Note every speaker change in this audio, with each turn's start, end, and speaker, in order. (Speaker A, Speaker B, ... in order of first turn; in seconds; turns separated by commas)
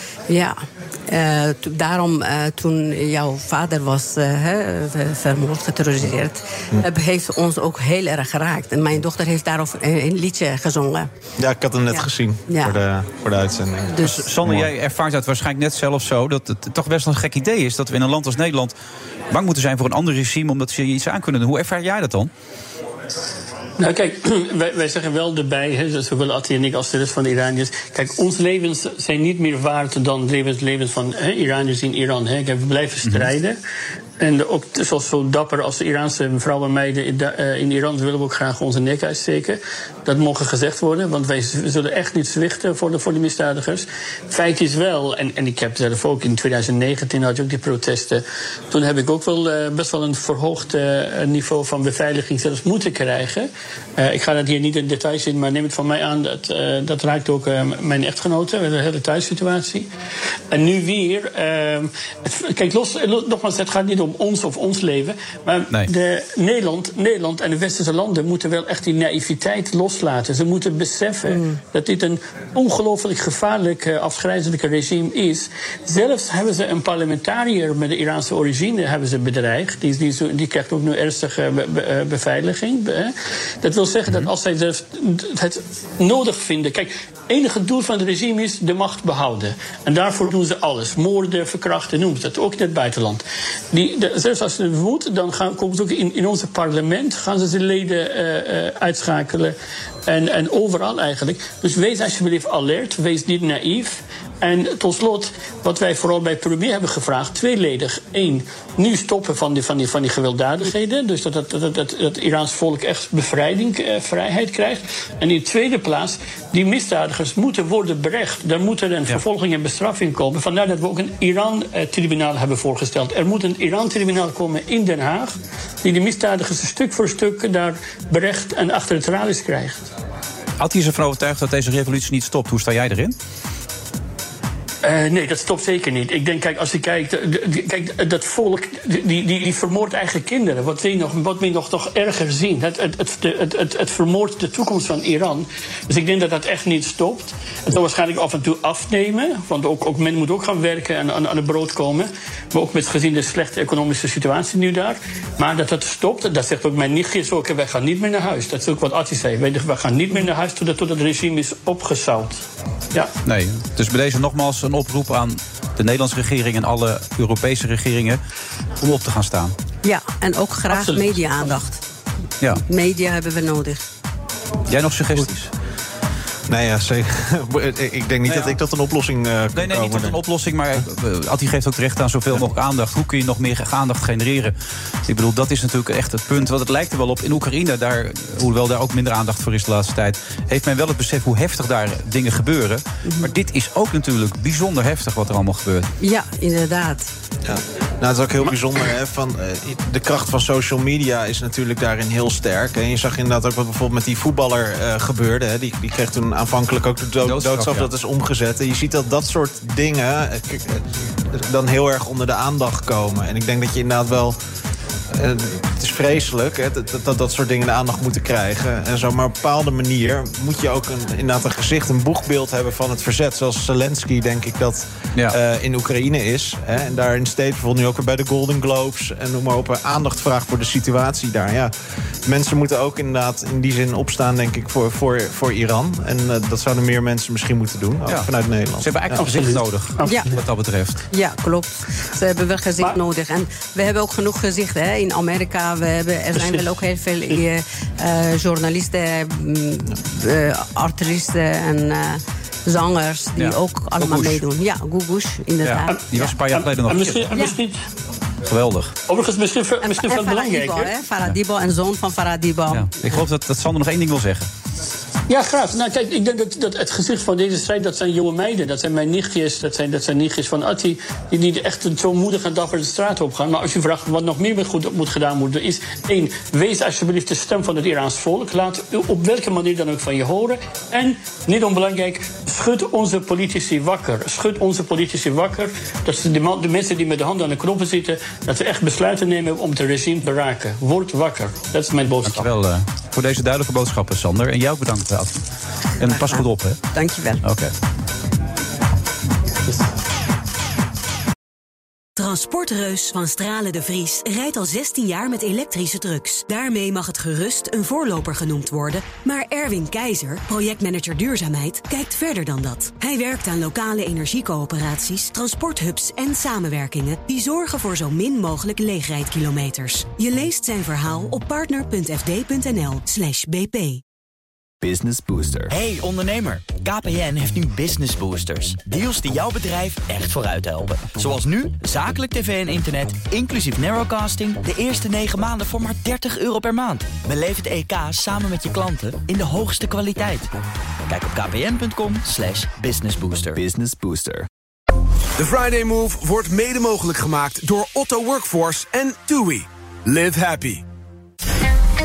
Speaker A: 0.3-11.1, Speaker B: 11.4-14.7, Speaker A: 11.9-12.8, Speaker A: 13.9-14.2, Speaker C: 14.0-18.8, Speaker C: 19.3-22.3, Speaker D: 23.8-33.6, Speaker C: 33.0-33.3, Speaker D: 34.2-59.9, Speaker D: 60.5-99.6, Speaker A: 71.3-71.6, Speaker D: 100.1-129.9, Speaker C: 130.6-133.2, Speaker D: 134.8-162.4, Speaker C: 163.2-168.2, Speaker C: 168.8-169.6, Speaker A: 169.8-171.8, Speaker D: 170.7-171.5, Speaker A: 172.6-173.8, Speaker C: 174.7-175.5, Speaker B: 176.5-180.2, Speaker C: 178.3-178.6, Speaker C: 179.6-184.5, Speaker C: 185.1-195.9, Speaker A: 193.1-193.3, Speaker A: 196.0-197.1, Speaker B: 197.5-214.4, Speaker C: 207.2-207.9, Speaker B: 215.2-231.7, Speaker B: 232.3-239.2, Speaker C: 238.8-241.0, Speaker D: 239.3-240.2, Speaker A: 240.0-240.3, Speaker A: 241.1-256.4, Speaker D: 246.3-246.6, Speaker C: 253.4-254.4, Speaker C: 255.6-257.4, Speaker D: 255.9-257.8, Speaker C: 258.5-258.9, Speaker D: 259.1-260.9, Speaker A: 259.8-263.2, Speaker C: 262.7-264.5, Speaker D: 265.3-292.5, Speaker C: 292.2-295.4, Speaker C: 296.0-296.8, Speaker A: 296.0-297.4, Speaker C: 297.4-297.7, Speaker E: 302.2-324.0, Speaker F: 324.8-340.5, Speaker F: 341.1-344.4, Speaker G: 345.4-350.8